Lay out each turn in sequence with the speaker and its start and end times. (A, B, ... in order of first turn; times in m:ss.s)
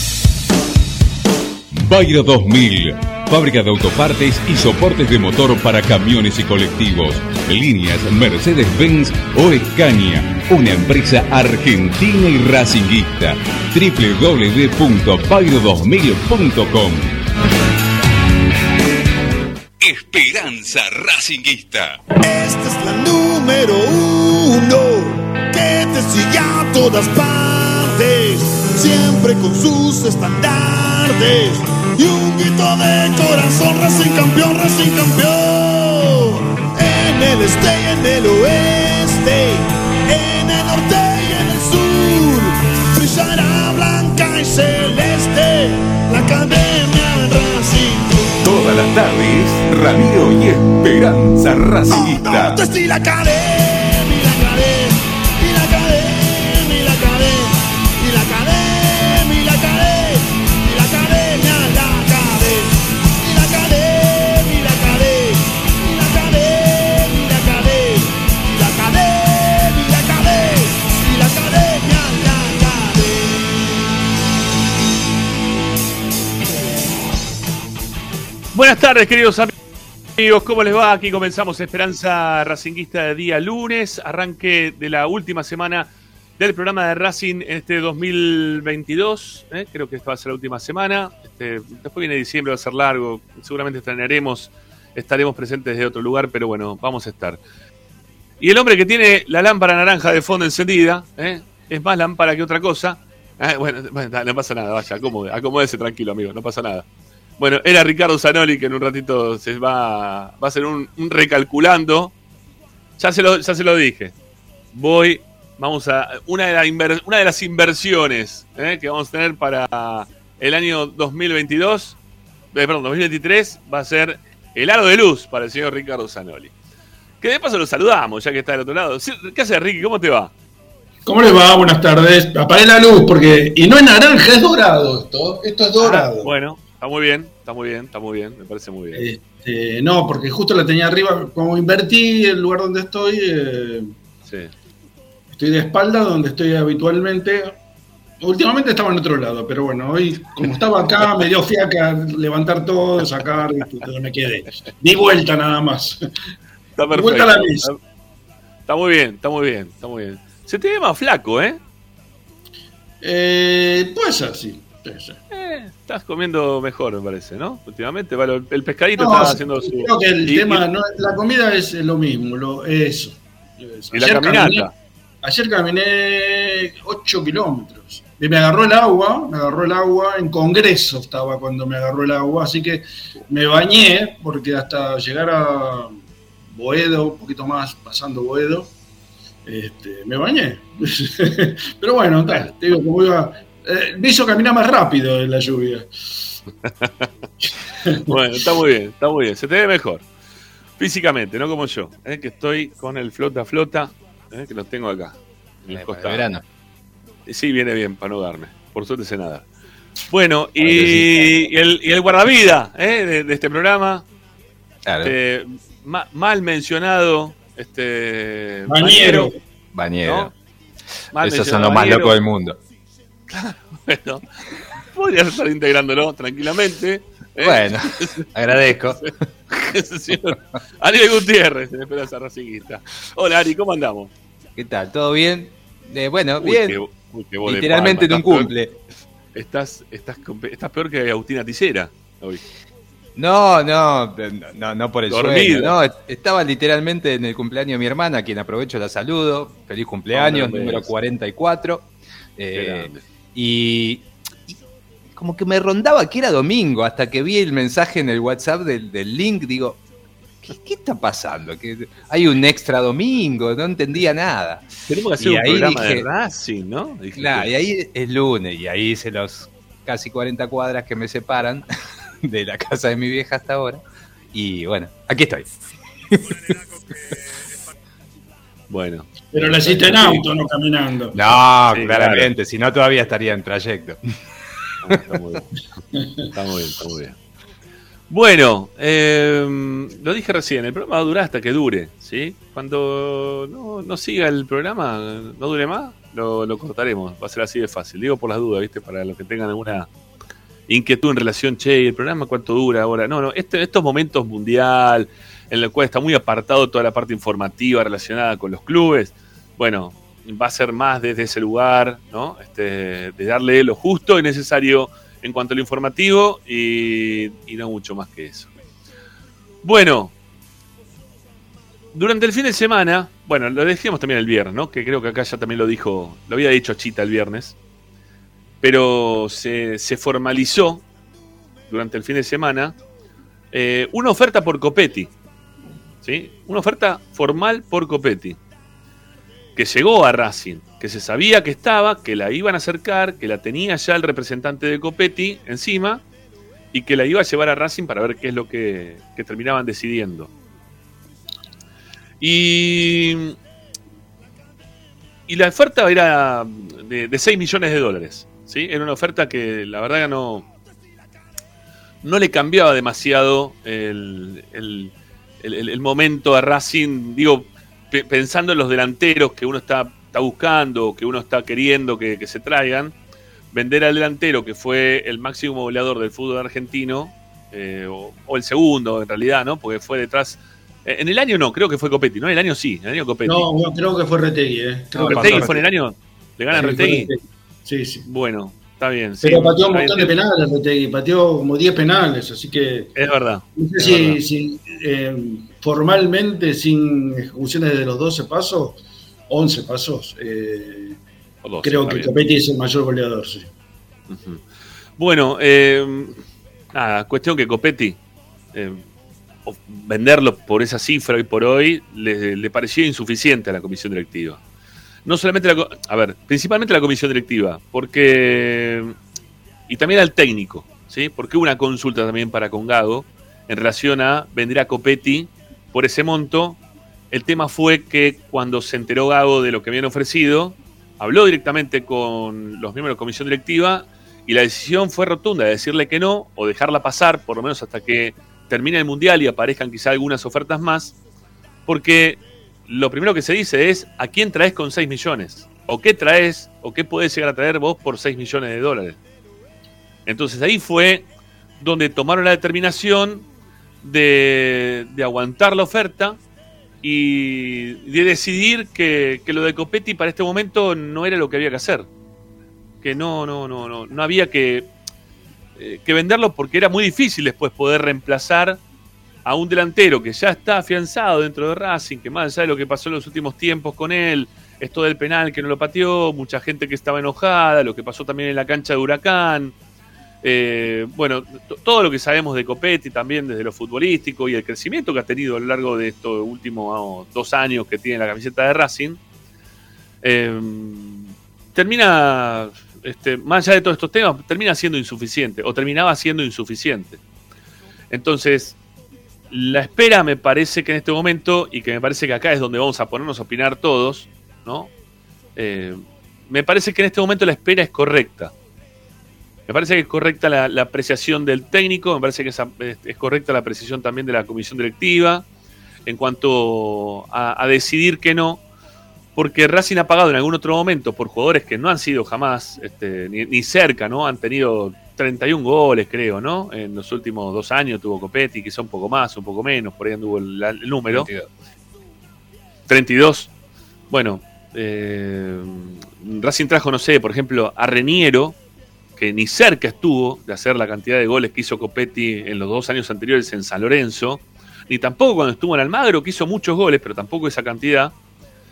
0:01.7-0:17.2 A
0:19.8-0:22.0 A
0:22.2-0:48.3 B
0:48.4-0:52.6 A
0:51.9-1:13.4 B
1:18.5-1:19.5 C
1:20.2-1:37.4 C
1:38.4-1:46.8 C
1:47.4-1:52.1 C
1:53.0-1:54.1 C
1:54.7-2:02.0 C
2:02.5-2:06.5 C
2:07.2-2:10.3 C
2:11.0-2:16.3 D
2:15.8-2:19.0 C
2:18.9-2:23.9 D
2:24.2-2:24.5 C
2:25.4-2:27.6 D
2:28.2-2:36.0 D
2:36.8-2:37.8 C
2:36.9-2:37.7 D
2:38.7-2:41.6 C
2:43.0-2:45.2 D
2:45.3-2:50.6 C
2:49.0-2:54.7 D
2:53.9-2:54.7 C
2:55.2-3:05.9 D
3:06.5-3:08.7 D
3:09.4-3:16.0 D
3:16.6-3:16.9 C
3:18.1-3:20.0 C
3:20.8-3:26.3 C
3:25.7-3:26.4 E
3:27.3-3:29.4 C
3:30.1-3:34.0 C
3:30.6-3:31.1 E
3:34.8-3:35.1 E
3:35.0-3:39.3 C
3:38.7-3:39.3 D
3:39.7-3:40.3 E
3:40.0-3:40.3 C
3:41.1-3:42.2 C
3:41.2-3:42.6 E
3:43.3-3:44.2 C
3:44.9-3:54.1 C
3:47.4-3:49.1 E
3:54.6-3:56.8 E
3:56.4-3:58.5 C
3:57.4-3:58.8 E
3:59.3-4:02.4 C
4:03.2-4:14.6 E
4:05.1-4:05.8 C
4:10.1-4:10.9 C
4:12.5-4:13.0 C
4:15.1-4:19.8 E
4:20.4-4:24.6 E
4:24.9-4:27.5 C
4:25.2-4:26.1 E
4:27.1-4:31.7 E
4:32.2-4:33.8 E
4:34.3-4:35.5 E
4:36.1-4:36.4 E
4:38.7-4:40.2 C
4:39.3-4:41.2 D
4:41.1-4:44.0 E
4:41.7-4:42.3 C
4:44.8-4:45.5 C
4:44.9-4:45.2 E
4:46.3-4:47.2 C
4:48.1-4:59.9 C
5:00.7-5:18.5 C
5:19.6-5:20.1 C
5:21.9-5:27.6 C
5:28.6-5:30.8 C
5:31.7-5:32.8 C
5:33.5-5:35.1 C
5:36.0-5:38.4 C
5:39.6-5:46.0 C
5:46.7-5:50.3 C
5:52.2-5:53.3 C
5:55.3-6:00.5 C
6:02.0-6:12.9 C
6:13.5-6:23.4 C
6:23.2-6:25.5 D
6:24.9-6:25.6 E
6:25.1-6:27.1 C
6:26.5-6:28.0 D
6:28.0-6:30.2 C
6:29.2-6:32.9 D
6:32.9-6:34.2 C
6:33.6-6:41.0 D
6:41.4-6:42.1 C
6:41.6-6:43.5 D
6:44.1-6:44.4 C
6:45.0-6:46.2 C
6:46.7-6:48.0 C
6:48.5-6:48.8 C
6:49.4-6:54.4 C
6:55.0-6:58.9 C
6:59.7-7:06.6 C
7:07.1-7:20.9 C
7:21.7-7:29.0 C
7:30.0-7:31.1 C
7:31.6-7:33.3 C
7:33.8-7:36.2 C
7:36.8-7:41.9 C
7:42.8-7:44.7 C
7:45.6-7:48.6 C
7:49.2-7:59.5 C
8:00.2-8:09.0 C
8:10.0-8:17.0 C
8:17.9-8:18.6 C
8:19.3-8:24.7 C
8:25.4-8:28.3 C
8:29.5-8:35.2 C
8:35.8-8:38.4 C
8:39.2-8:51.1 C
8:50.9-8:51.3 E
8:52.7-8:53.3 C
8:53.9-8:58.4 C
8:59.0-9:07.9 C